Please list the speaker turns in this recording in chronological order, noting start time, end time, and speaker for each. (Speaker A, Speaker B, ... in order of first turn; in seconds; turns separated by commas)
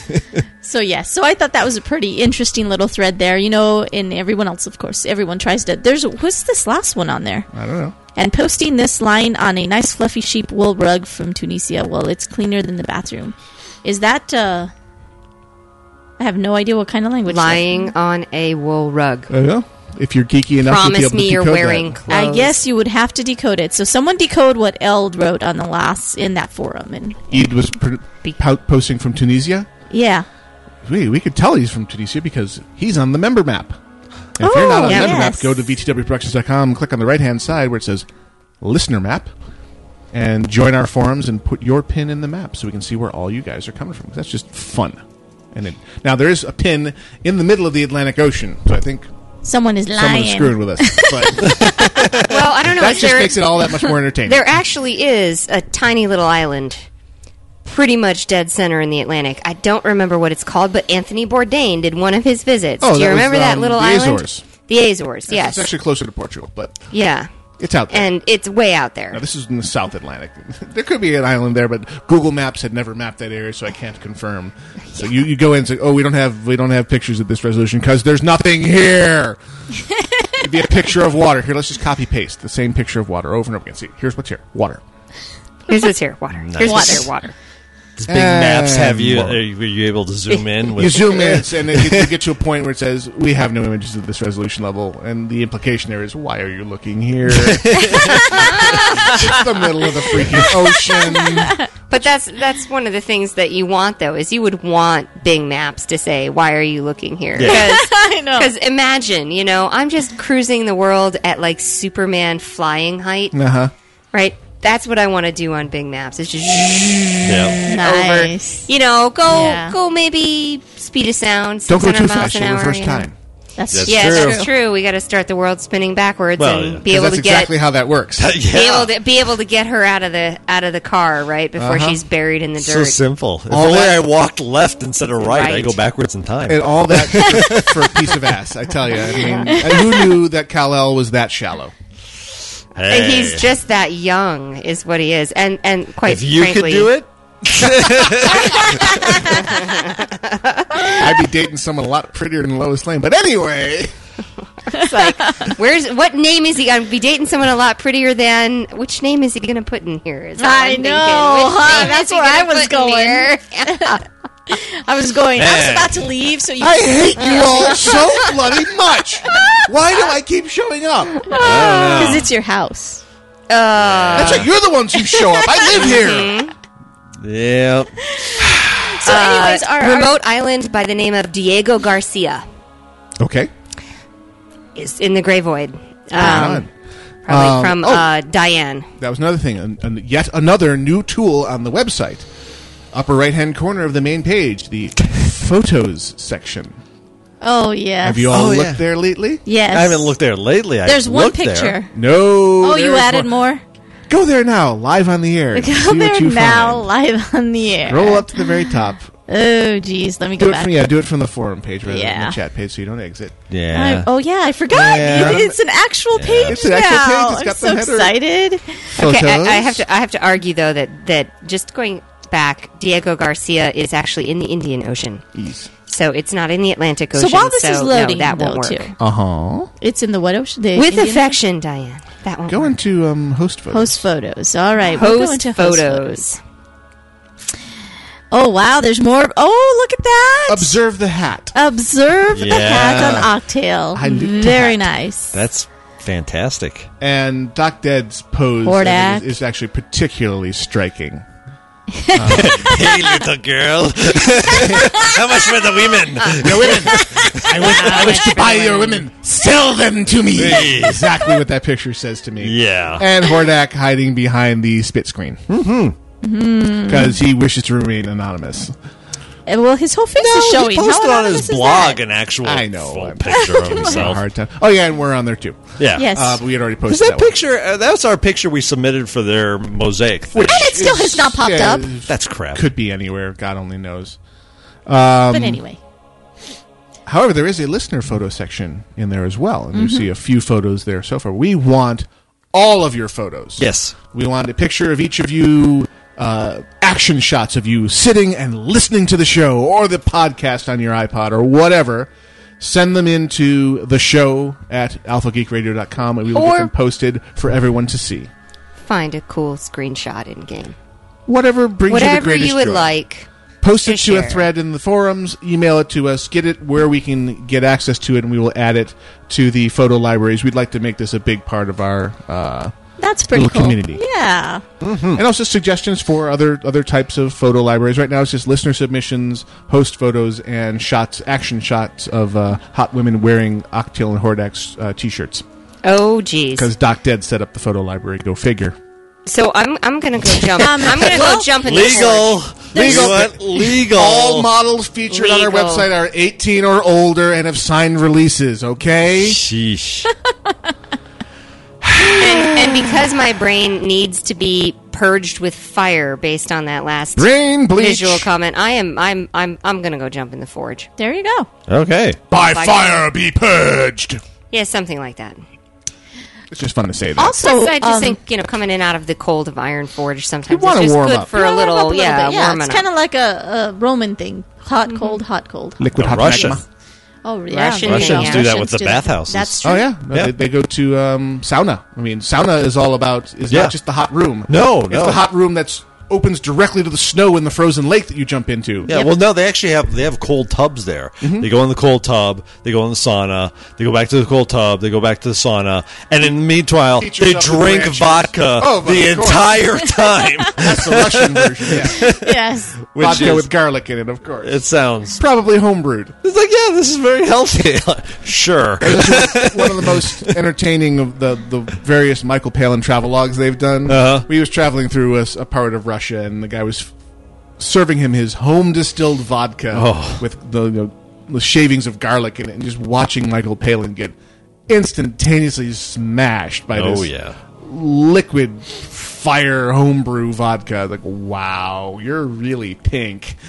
Speaker A: 0.6-7.5, Speaker B: 7.5-7.9, Speaker A: 8.1-14.7, Speaker A: 16.2-17.9, Speaker C: 17.2-19.3, Speaker B: 19.3-21.9, Speaker C: 20.6-22.5, Speaker A: 22.1-27.5, Speaker B: 27.3-29.7, Speaker A: 29.9-30.2, Speaker B: 30.8-33.8, Speaker B: 34.4-38.0, Speaker A: 34.4-35.5, Speaker C: 34.9-35.4, Speaker B: 38.6-39.3, Speaker B: 40.1-45.0, Speaker B: 45.5-49.1, Speaker A: 49.4-51.6, Speaker B: 49.9-54.5, Speaker C: 52.2-53.6, Speaker C: 54.2-56.8, Speaker C: 57.6-65.7, Speaker B: 62.8-64.4, Speaker B: 65.3-66.8, Speaker C: 66.9-67.3, Speaker B: 67.6-68.1, Speaker C: 67.9-69.2, Speaker B: 69.1-79.4, Speaker B: 80.4-84.8, Speaker C: 85.7-87.3, Speaker D: 86.4-87.1, Speaker A: 86.6-87.1, Speaker D: 88.0-92.1, Speaker B: 88.1-89.4, Speaker B: 90.8-101.6, Speaker D: 97.4-98.3, Speaker A: 101.1-101.7, Speaker C: 101.9-113.4, Speaker D: 107.4-107.7, Speaker A: 107.4-108.5, Speaker B: 113.3-113.7, Speaker C: 114.1-123.1, Speaker D: 117.2-117.6, Speaker A: 117.7-118.7, Speaker A: 119.3-119.7, Speaker B: 121.7-123.1, Speaker A: 123.6-124.5, Speaker D: 123.7-124.5, Speaker C: 123.8-127.5, Speaker D: 126.4-126.8, Speaker B: 126.8-128.3, Speaker D: 128.2-128.9, Speaker C: 128.5-133.0, Speaker B: 131.6-132.0, Speaker D: 132.6-137.8, Speaker B: 133.5-134.0, Speaker C: 135.2-135.8, Speaker B: 136.5-141.7, Speaker D: 142.8-143.5, Speaker C: 142.9-146.9, Speaker D: 146.0-149.3, Speaker C: 149.3-151.0, Speaker B: 151.0-153.9, Speaker C: 154.7-164.0, Speaker A: 160.4-168.3, Speaker D: 165.4-166.0, Speaker B: 166.6-171.2, Speaker C: 167.2-167.8, Speaker A: 169.3-169.6, Speaker A: 171.3-173.0, Speaker D: 171.3-172.3, Speaker C: 173.5-174.5, Speaker D: 173.8-174.5, Speaker B: 174.1-176.4, Speaker C: 175.7-176.5, Speaker D: 177.2-178.1, Speaker A: 178.8-180.2, Speaker C: 179.0-182.4, Speaker B: 183.2-183.5, Speaker C: 184.8-186.6, Speaker B: 186.2-186.7, Speaker A: 186.2-186.5, Speaker C: 187.2-188.9, Speaker B: 187.3-188.1, Speaker B: 189.0-192.3, Speaker B: 192.9-196.8, Speaker A: 197.4-198.3, Speaker B: 198.0-199.4, Speaker D: 198.3-198.8, Speaker A: 199.4-200.2, Speaker D: 199.7-201.8, Speaker A: 200.8-201.9, Speaker B: 201.9-203.3, Speaker A: 202.6-203.6, Speaker B: 204.1-206.9, Speaker A: 205.5-208.7, Speaker B: 207.9-209.1, Speaker A: 209.3-210.9, Speaker B: 210.4-213.4, Speaker A: 211.9-212.4, Speaker D: 213.5-214.1, Speaker A: 213.7-218.7, Speaker D: 214.7-215.5, Speaker B: 214.7-215.5, Speaker D: 216.1-216.7, Speaker B: 216.5-218.2, Speaker B: 219.0-219.8, Speaker C: 219.0-225.2, Speaker B: 225.3-225.7, Speaker C: 225.9-228.9, Speaker A: 227.1-228.9, Speaker B: 229.0-229.7, Speaker A: 229.8-231.4, Speaker C: 230.8-232.7, Speaker B: 232.5-234.0, Speaker A: 233.7-236.3, Speaker C: 234.9-236.4, Speaker A: 238.3-240.8, Speaker B: 240.5-241.5, Speaker A: 241.5-245.4, Speaker D: 242.3-243.3, Speaker B: 243.9-244.9, Speaker D: 245.3-246.9, Speaker B: 247.0-251.2, Speaker A: 248.6-249.3, Speaker A: 252.0-253.0, Speaker B: 252.1-252.9, Speaker D: 252.3-258.0, Speaker B: 254.4-255.0, Speaker B: 256.2-265.4, Speaker C: 257.0-259.1, Speaker D: 260.3-261.2, Speaker D: 262.4-263.1, Speaker D: 265.5-265.9, Speaker A: 266.2-267.2, Speaker B: 266.9-268.7, Speaker A: 269.5-272.0, Speaker D: 270.2-274.2, Speaker B: 272.4-277.3, Speaker A: 273.3-273.9, Speaker D: 275.8-276.3, Speaker A: 276.0-276.4, Speaker D: 276.9-280.9, Speaker B: 280.3-284.2, Speaker A: 280.4-281.9, Speaker D: 282.1-282.7, Speaker B: 284.9-285.6, Speaker A: 285.3-285.8, Speaker B: 287.1-308.3, Speaker A: 289.7-290.1, Speaker D: 293.6-293.9, Speaker C: 306.3-306.7, Speaker C: 308.8-310.7, Speaker B: 311.3-312.9, Speaker C: 311.9-313.3, Speaker B: 313.6-322.7, Speaker C: 313.8-314.5, Speaker A: 323.0-324.6, Speaker B: 323.3-324.0, Speaker D: 324.8-325.2, Speaker B: 325.0-335.4, Speaker C: 335.8-336.7, Speaker B: 336.6-338.8, Speaker C: 339.2-342.4, Speaker A: 340.6-342.1, Speaker D: 341.2-344.5, Speaker A: 342.7-343.4, Speaker B: 342.7-349.4, Speaker C: 345.1-345.9, Speaker D: 349.2-350.1, Speaker B: 352.0-352.5, Speaker C: 352.1-360.9, Speaker B: 357.1-358.3, Speaker A: 361.0-361.5, Speaker D: 361.7-362.2, Speaker B: 362.3-364.2, Speaker C: 362.4-363.0, Speaker C: 364.5-365.4, Speaker B: 366.5-367.4, Speaker A: 367.2-368.2, Speaker C: 367.2-372.8, Speaker B: 370.5-371.3, Speaker A: 371.3-375.8, Speaker C: 374.9-375.2, Speaker B: 375.8-376.6, Speaker D: 375.9-376.6, Speaker A: 377.2-379.9, Speaker C: 377.5-378.6, Speaker D: 377.8-380.3, Speaker B: 379.6-388.9, Speaker D: 383.5-383.8, Speaker D: 384.5-385.2, Speaker D: 388.9-403.5, Speaker A: 388.9-389.1, Speaker B: 391.2-391.5, Speaker B: 396.9-399.7, Speaker B: 400.6-402.1, Speaker A: 402.1-402.7, Speaker B: 402.9-404.6, Speaker D: 404.4-405.2, Speaker B: 405.1-406.1, Speaker D: 406.2-410.3, Speaker B: 408.8-416.9, Speaker D: 413.9-414.3, Speaker B: 417.6-424.1, Speaker D: 419.7-420.2, Speaker B: 424.7-433.4, Speaker D: 426.8-427.4